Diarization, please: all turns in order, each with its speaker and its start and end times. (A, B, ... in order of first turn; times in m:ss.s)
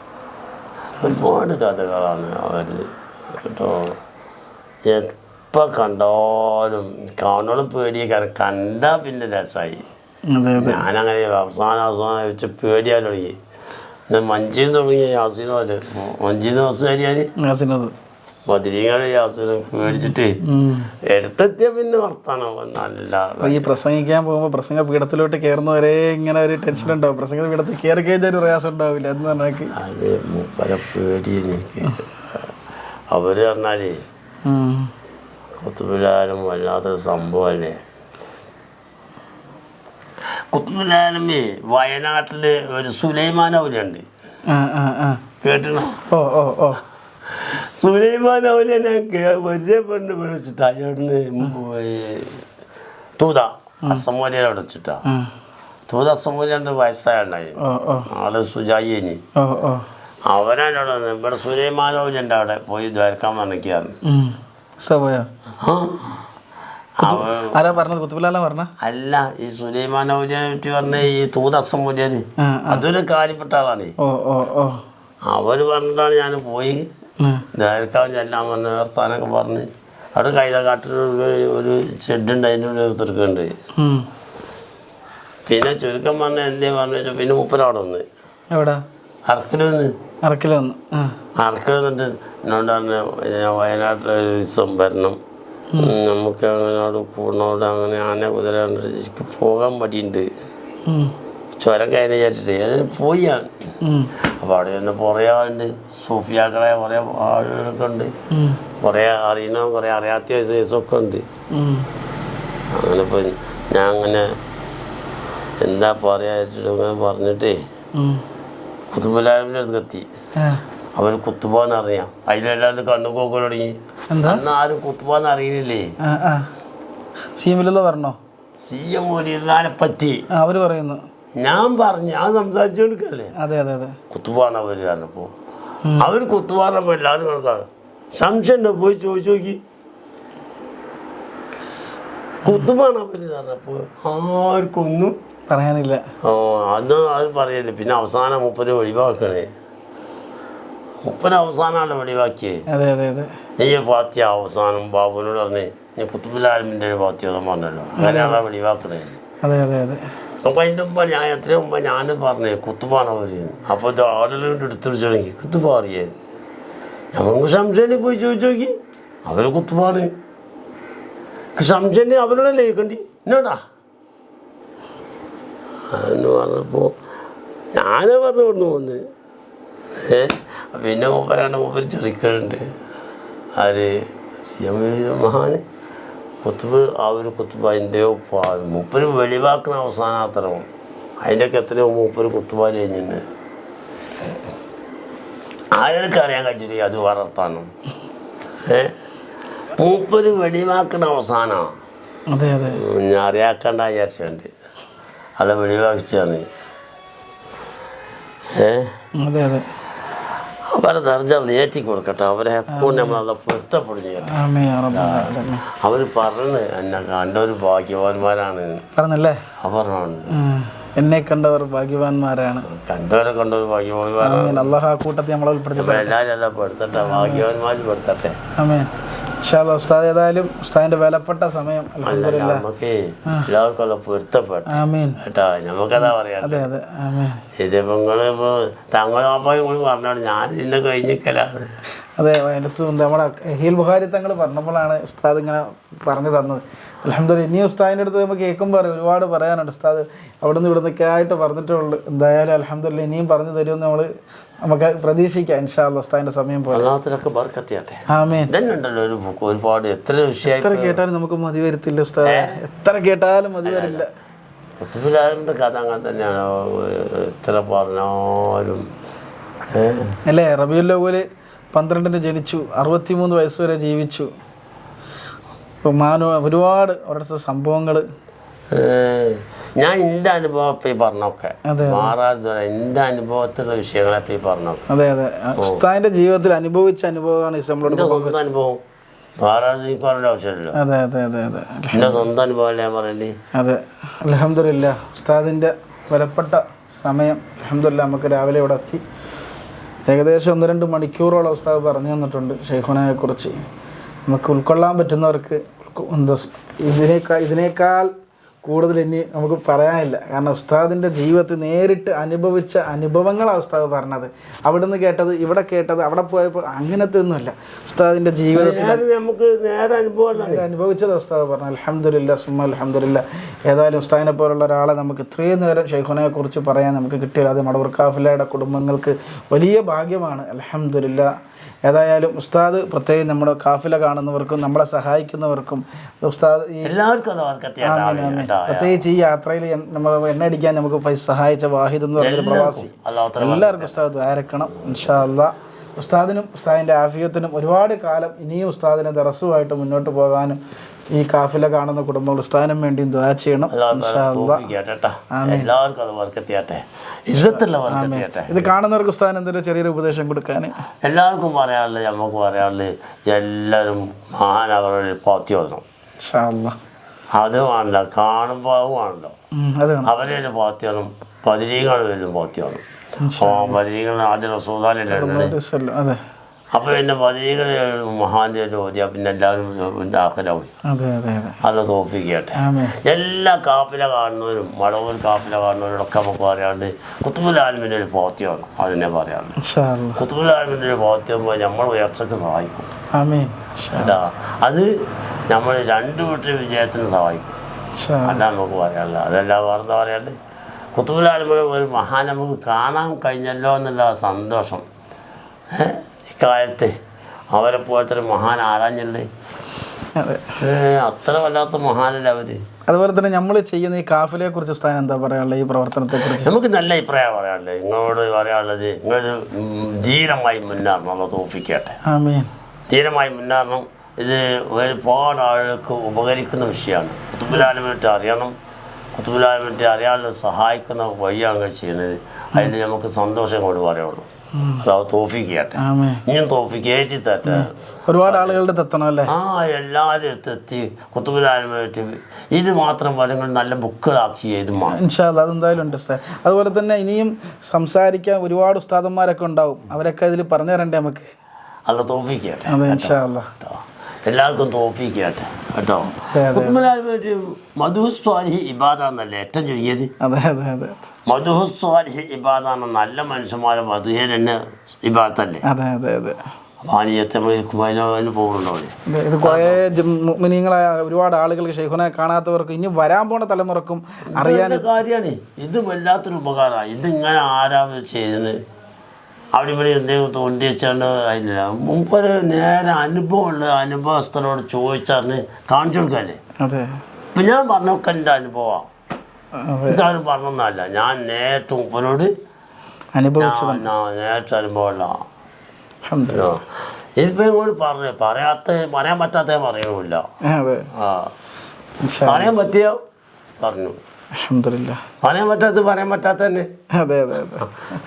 0:01.0-0:04.0 A
0:04.9-0:09.8 A
0:10.3-0:10.8 B
0:10.6-0:13.4 A
0:14.1-0:17.3 A
0:17.4-0:17.9 B
0:18.5-0:20.4 A
0:19.9-0:20.9 B
0:21.1-0:23.7 A
0:23.4-0:29.7 B
0:29.7-0:32.5 A
0:33.1-0:34.0 A
0:34.4-0:34.9 B
0:35.6-0:37.8 A
0:40.5-0:44.0 A
0:44.5-0:45.2 B
0:45.4-0:46.0 A
0:46.1-0:46.8 B
0:47.3-0:52.4 A
0:53.2-0:55.0 A
0:55.0-0:55.3 B
0:55.9-0:59.2 A
0:57.6-0:58.1 B
0:59.4-0:59.8 B
1:00.3-1:03.9 A
1:04.0-1:05.3 B
1:05.6-1:06.2 A
1:07.0-1:07.6 A
1:07.0-1:08.7 B
1:08.8-1:14.0 A
1:12.4-1:12.8 B
1:14.0-1:14.8 B
1:15.2-1:16.9 A
1:17.5-1:23.5 A
1:23.8-1:24.1 B
1:25.5-1:28.1 A
1:28.5-1:28.8 B
1:29.3-1:29.9 A
1:30.2-1:31.2 B
1:31.4-1:35.2 A
1:35.8-1:40.3 A
1:40.9-1:41.1 B
1:41.6-1:43.5 A
1:43.8-1:44.1 B
1:44.4-1:48.1 A
1:48.3-1:48.6 B
1:48.8-1:51.2 A
1:51.5-1:51.9 B
1:52.7-1:54.3 A
1:55.6-1:57.6 A
1:58.0-1:58.2 B
1:58.9-2:00.1 A
2:01.0-2:05.9 A
2:04.1-2:04.4 B
2:06.0-2:06.5 B
2:07.4-2:08.2 B
2:08.6-2:10.2 A
2:10.3-2:11.0 B
2:11.4-2:13.3 A
2:13.4-2:14.0 B
2:14.1-2:15.3 A
2:15.8-2:16.1 B
2:16.0-2:19.6 A
2:22.4-2:25.2 A
2:25.5-2:26.0 B
2:26.2-2:29.5 A
2:31.0-2:32.6 A
2:32.7-2:33.3 B
2:33.6-2:39.1 A
2:38.0-2:38.4 B
2:39.4-2:40.0 B
2:40.4-2:46.2 A
2:47.1-2:48.7 A
2:49.3-2:50.1 A
2:51.6-2:53.6 A
2:55.9-2:56.9 A
2:57.7-2:59.0 A
3:00.0-3:02.6 A
3:03.6-3:04.0 A
3:04.6-3:05.6 A
3:06.4-3:10.7 A
3:11.2-3:13.2 A
3:15.7-3:17.7 A
3:18.7-3:18.9 A
3:19.8-3:21.8 A
3:22.3-3:22.8 B
3:22.7-3:24.5 A
3:25.4-3:26.5 A
3:28.6-3:28.9 A
3:29.2-3:29.7 B
3:30.7-3:34.4 A
3:32.7-3:33.2 B
3:34.3-3:35.6 B
3:34.9-3:38.8 A
3:39.0-3:39.4 B
3:39.6-3:40.3 A
3:40.3-3:42.7 B
3:42.6-3:44.8 A
3:44.2-3:46.1 B
3:45.8-3:48.4 A
3:47.0-3:47.5 B
3:48.6-3:48.9 B
3:49.4-3:52.6 B
3:52.0-3:56.7 A
3:54.7-3:55.2 B
3:56.0-3:57.4 B
3:57.6-4:01.7 A
4:02.2-4:14.1 B
4:14.6-4:16.9 B
4:16.7-4:21.0 A
4:18.1-4:18.5 B
4:20.5-4:24.1 B
4:22.2-4:22.6 A
4:23.6-4:24.0 A
4:24.8-4:28.8 A
4:29.7-4:30.1 A
4:30.3-4:34.3 B
4:35.8-4:38.0 B
4:38.7-4:44.8 A
4:41.7-4:42.1 B
4:44.9-4:48.5 B
4:45.6-4:45.8 A
4:47.8-4:48.8 A
4:49.4-4:50.8 A
4:50.7-4:52.3 B
4:51.9-4:53.3 A
4:53.6-4:59.0 B
5:00.1-5:03.6 B
5:04.3-5:08.1 B
5:08.6-5:19.0 B
5:18.5-5:20.6 A
5:20.3-5:31.3 B
5:31.9-5:37.0 B
5:36.8-5:39.0 A
5:37.8-5:50.6 B
5:42.2-5:45.3 A
5:51.1-5:54.6 B
5:53.7-5:58.7 A
5:55.3-5:55.7 B
5:57.4-6:00.7 B
6:01.0-6:05.8 A
6:06.2-6:06.8 B
6:07.3-6:09.4 A
6:09.5-6:10.1 B
6:10.0-6:12.8 A
6:13.2-6:13.8 B
6:13.4-6:15.6 A
6:15.1-6:16.2 B
6:16.7-6:20.7 A
6:20.9-6:21.6 B
6:21.6-6:29.6 A
6:22.6-6:23.0 B
6:29.6-6:30.2 B
6:30.2-6:32.9 A
6:33.2-6:34.2 B
6:33.9-6:34.9 A
6:35.5-6:37.6 A
6:38.0-6:38.4 B
6:38.2-6:40.4 A
6:41.0-6:44.8 A
6:45.7-6:46.9 A
6:47.5-6:49.3 A
6:50.2-6:50.6 B
6:50.6-6:52.6 A
6:52.9-6:56.5 B
6:56.1-7:02.0 A
7:02.1-7:02.5 B
7:02.9-7:08.6 A
7:09.2-7:14.3 A
7:14.6-7:14.8 B
7:14.8-7:17.7 A
7:15.8-7:16.2 B
7:17.4-7:19.3 B
7:18.2-7:18.6 A
7:19.3-7:25.0 A
7:24.9-7:31.3 B
7:31.9-7:40.1 A
7:32.7-7:33.5 B
7:36.2-7:36.8 B
7:40.2-7:41.0 B
7:41.3-7:45.6 A
7:45.6-7:46.4 B
7:46.8-7:49.8 A
7:49.1-7:54.9 B
7:54.3-7:58.6 A
7:59.5-8:06.4 A
8:06.6-8:07.0 B
8:07.4-8:08.9 A
8:09.6-8:10.0 B
8:09.9-8:12.3 A
8:13.2-8:13.9 B
8:13.4-8:15.2 A
8:16.1-8:16.5 B
8:16.3-8:16.6 A
8:17.2-8:20.3 A
8:20.5-8:20.9 B
8:21.0-8:21.3 A
8:22.0-8:22.6 B
8:22.2-8:23.0 A
8:23.6-8:24.0 A
8:24.4-8:25.0 B
8:25.2-8:26.7 A
8:27.0-8:27.8 B